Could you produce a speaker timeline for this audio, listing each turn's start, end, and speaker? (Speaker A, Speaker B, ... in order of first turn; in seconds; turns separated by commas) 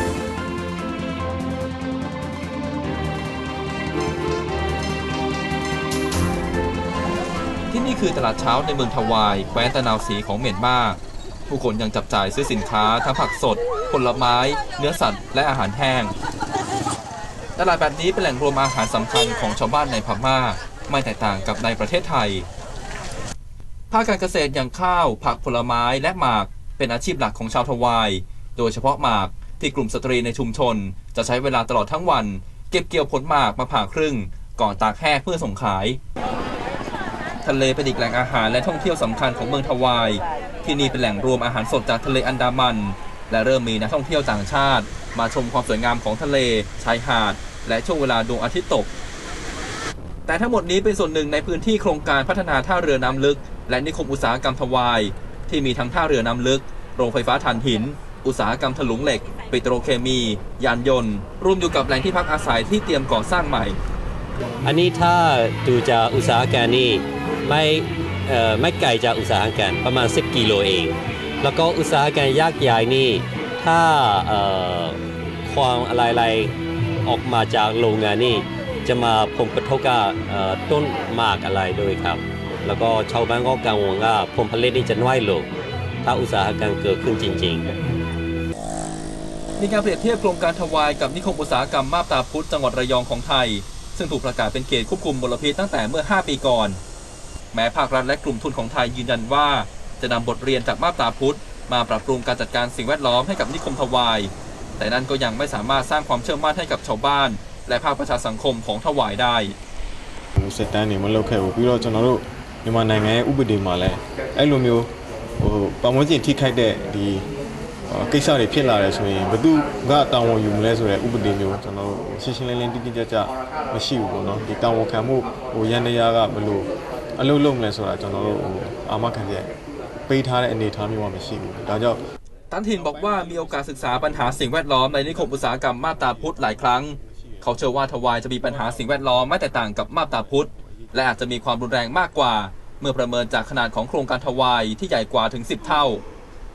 Speaker A: 7.7-16.1, Speaker A: 17.6-22.5, Speaker A: 23.9-36.0, Speaker A: 37.4-48.9, Speaker A: 50.3-63.8, Speaker B: 64.6-76.5, Speaker B: 77.0-85.5, Speaker B: 86.0-87.7, Speaker A: 89.6-96.8, Speaker A: 97.5-109.6, Speaker C: 110.4-117.3, Speaker C: 117.9-129.5, Speaker C: 130.1-132.0, Speaker A: 132.5-146.0, Speaker C: 132.8-133.8, Speaker C: 135.9-137.6, Speaker C: 138.4-141.0